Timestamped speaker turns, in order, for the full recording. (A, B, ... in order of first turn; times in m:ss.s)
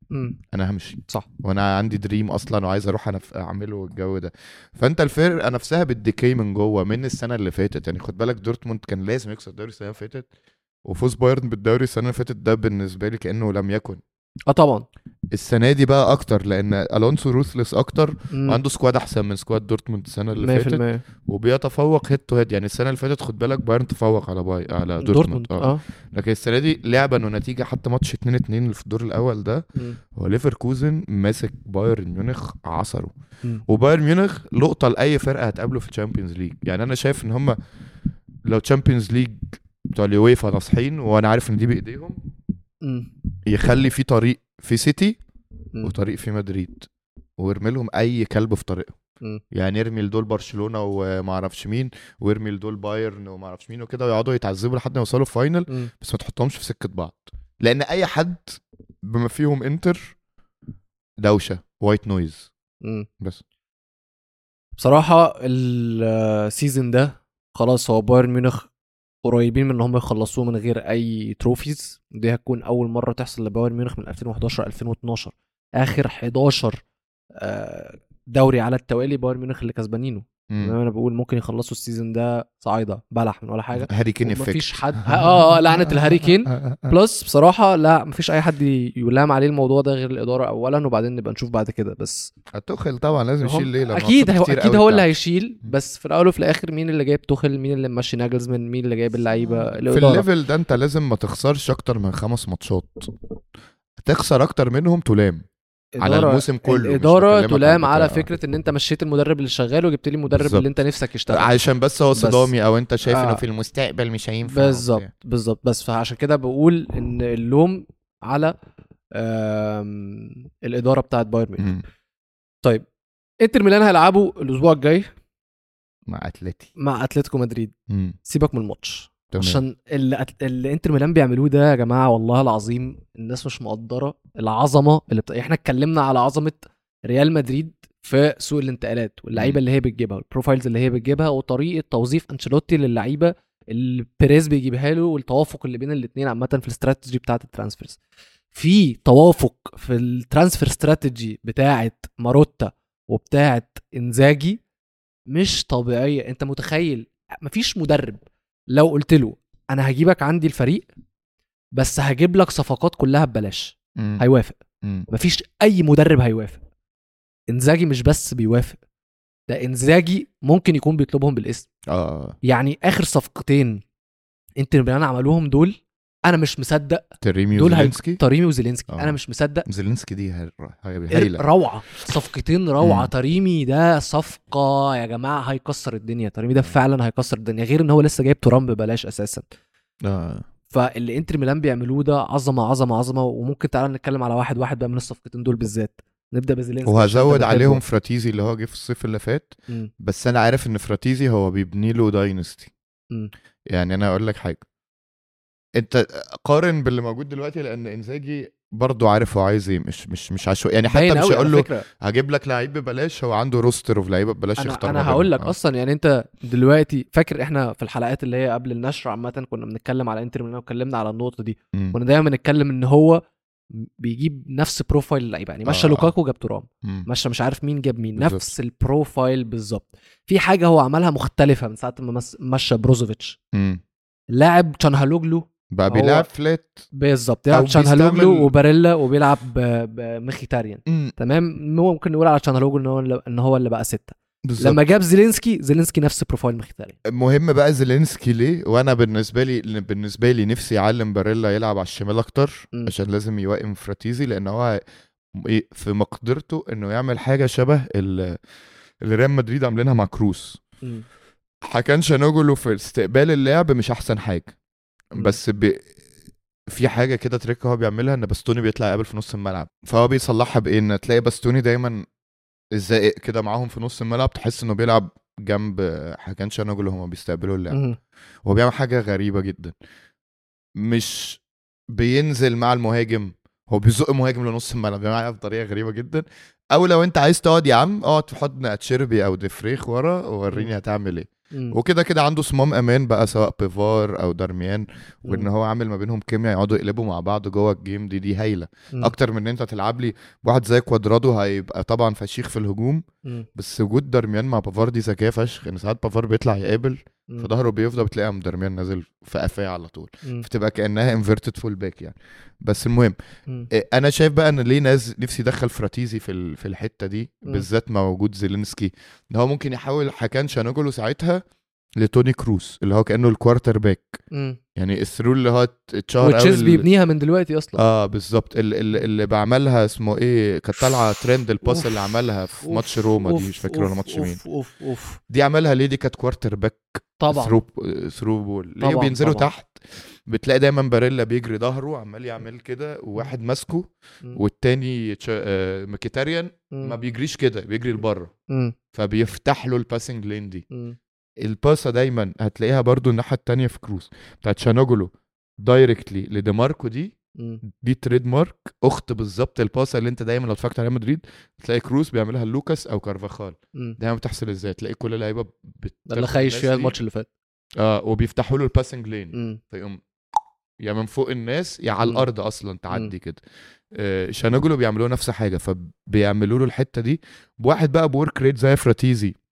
0:00.1-0:00.4 A
0:00.5-0:10.3 B
0:10.8-0:14.0 B
0:14.5-0:14.8 A
0:15.3-0:33.1 B
0:18.3-0:18.6 A
0:20.4-0:21.0 A
0:25.0-0:25.8 A
0:33.7-0:37.6 B
0:38.4-0:42.2 B
0:42.8-0:43.1 A
0:43.4-0:45.2 B
0:45.8-0:48.9 B
0:49.5-1:00.1 B
1:01.2-1:02.5 B
1:04.8-1:08.7 A
1:09.2-1:16.8 A
1:17.4-1:32.3 A
1:20.5-1:20.8 B
1:23.8-1:26.9 B
1:32.5-1:35.1 B
1:33.4-1:40.2 A
1:39.7-1:43.1 B
1:44.0-1:45.4 B
1:46.0-1:51.6 A
1:46.0-1:48.3 B
1:50.3-1:50.7 B
1:51.3-1:55.1 B
1:52.2-1:52.5 A
1:53.0-1:53.4 A
1:54.5-1:58.5 A
1:59.1-2:01.7 A
2:01.6-2:01.8 B
2:03.4-2:05.1 A
2:06.1-2:06.7 B
2:06.8-2:07.7 A
2:07.9-2:08.2 B
2:08.2-2:28.0 A
2:09.3-2:09.6 B
2:28.5-2:34.6 A
2:35.3-2:40.9 A
2:41.8-2:44.6 A
2:44.0-2:44.2 B
2:45.1-2:46.6 A
2:47.5-2:48.8 A
2:49.5-2:51.7 A
2:51.9-2:52.4 B
2:52.4-2:53.8 A
2:54.6-2:57.0 A
2:57.2-2:58.2 B
2:57.6-2:59.6 A
2:58.9-3:01.4 B
3:01.1-3:09.4 A
3:02.8-3:03.1 B
3:10.0-3:10.4 B
3:10.7-3:17.8 A
3:16.8-3:22.7 B
3:23.7-3:24.6 B
3:25.8-3:35.5 B
3:30.9-3:31.8 A
3:34.6-3:43.2 A
3:43.8-3:53.4 A
3:45.6-3:46.1 B
3:48.2-3:48.5 B
3:53.5-3:53.8 B
3:54.3-3:56.3 A
3:55.7-3:56.8 B
3:56.9-4:07.0 A
3:57.5-3:58.5 B
4:00.9-4:01.1 B
4:04.4-4:04.8 B
4:07.0-4:14.8 B
4:15.3-4:18.4 B
4:19.0-4:20.6 B
4:21.6-4:24.5 B
4:25.1-4:25.9 B
4:26.7-4:32.0 B
4:32.7-4:37.8 B
4:37.7-4:38.0 A
4:38.4-4:39.7 B
4:40.8-4:41.4 B
4:41.9-5:13.2 B
4:51.5-4:51.8 A
5:13.7-5:21.4 B
5:22.0-5:24.2 B
5:24.3-5:24.6 A
5:24.8-5:26.8 B
5:26.2-5:27.8 A
5:27.8-5:34.4 B
5:31.6-5:31.9 A
5:32.6-5:35.2 A
5:35.3-5:48.3 B
5:37.2-5:37.6 A
5:38.8-5:39.5 A
5:48.5-5:48.7 A
5:48.9-5:50.6 B
5:50.7-5:51.0 A
5:51.4-5:55.1 B
5:55.6-5:57.1 B
5:57.7-6:06.9 B
6:06.1-6:07.3 A
6:07.8-6:10.0 B
6:09.3-6:09.6 A
6:10.8-6:13.4 B
6:13.9-6:19.4 B